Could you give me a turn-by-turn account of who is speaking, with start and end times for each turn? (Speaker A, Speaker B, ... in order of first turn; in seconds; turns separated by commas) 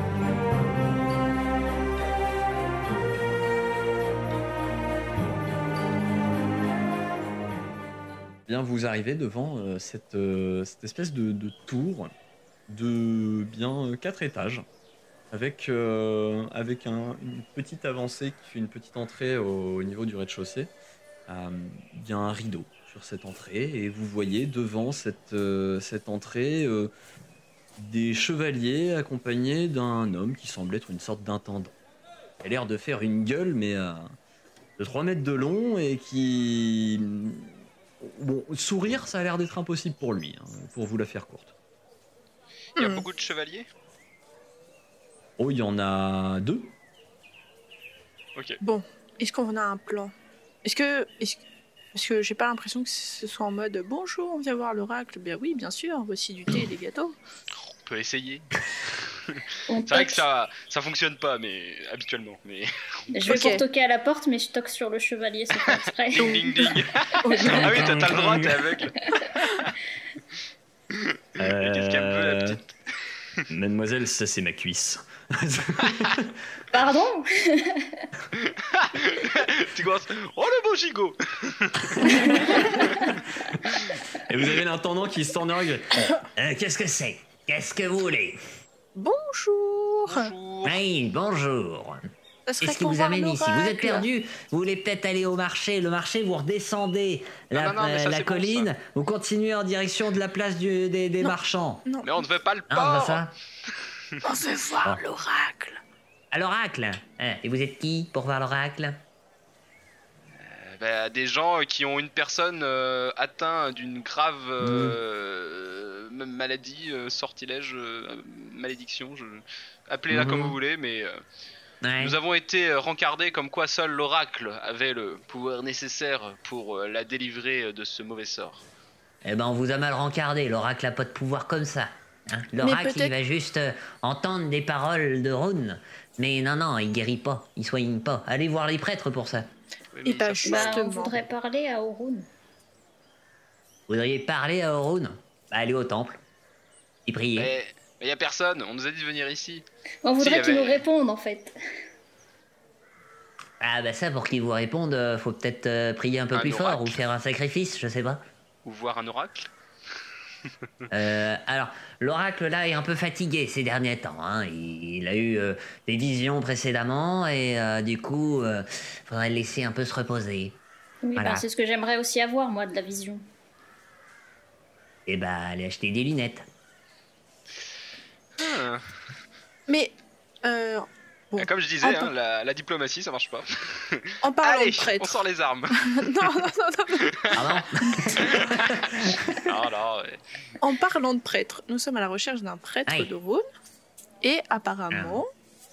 Speaker A: 8.5-12.1, Speaker A: 12.7-14.6, Speaker A: 15.3-20.7, Speaker A: 21.3-26.9, Speaker A: 27.8-31.8, Speaker A: 32.4-34.1, Speaker A: 34.8-41.5, Speaker B: 42.8-43.7, Speaker C: 42.8-43.0, Speaker A: 45.4-46.7, Speaker C: 48.6-50.1, Speaker C: 50.6-51.4, Speaker C: 51.9-57.1, Speaker B: 57.6-62.7, Speaker D: 59.7-60.2, Speaker D: 63.1-66.7, Speaker C: 63.2-63.6, Speaker B: 63.2-63.5, Speaker B: 65.7-69.0, Speaker C: 66.2-67.9, Speaker A: 67.5-68.8, Speaker D: 69.0-69.5, Speaker B: 70.9-72.7, Speaker A: 71.4-72.6, Speaker A: 73.5-76.3, Speaker D: 76.7-78.1, Speaker B: 78.4-82.8, Speaker A: 82.0-83.1, Speaker D: 82.0-83.1, Speaker B: 83.7-84.0, Speaker A: 84.2-86.2, Speaker E: 86.3-88.4, Speaker C: 88.9-90.3, Speaker B: 90.1-90.8, Speaker E: 90.6-92.0, Speaker C: 92.5-94.0, Speaker E: 92.6-101.8, Speaker B: 97.5-98.7, Speaker C: 101.2-102.2, Speaker B: 102.0-104.2, Speaker E: 102.7-103.3, Speaker C: 104.2-105.8, Speaker E: 106.3-109.0, Speaker B: 110.4-121.2, Speaker E: 121.8-122.2, Speaker B: 122.0-128.7, Speaker E: 129.2-139.5, Speaker C: 132.6-133.1, Speaker B: 139.9-140.9, Speaker C: 140.0-141.2, Speaker D: 140.4-142.3, Speaker E: 143.9-146.2, Speaker E: 147.1-147.5, Speaker B: 147.3-149.6, Speaker D: 150.0-151.5, Speaker B: 150.2-150.8, Speaker E: 153.6-158.2, Speaker B: 156.3-157.0, Speaker B: 158.6-159.5, Speaker E: 160.9-170.6, Speaker D: 171.0-173.2, Speaker E: 171.2-171.4, Speaker E: 175.1-176.4, Speaker B: 178.4-178.8, Speaker C: 179.7-182.1, Speaker B: 181.4-186.3, Speaker C: 184.2-185.2, Speaker C: 185.8-187.4, Speaker B: 187.0-187.6, Speaker E: 187.3-189.0, Speaker B: 188.2-190.2, Speaker C: 190.6-193.4, Speaker E: 192.8-193.1, Speaker C: 194.2-195.3, Speaker E: 194.9-195.2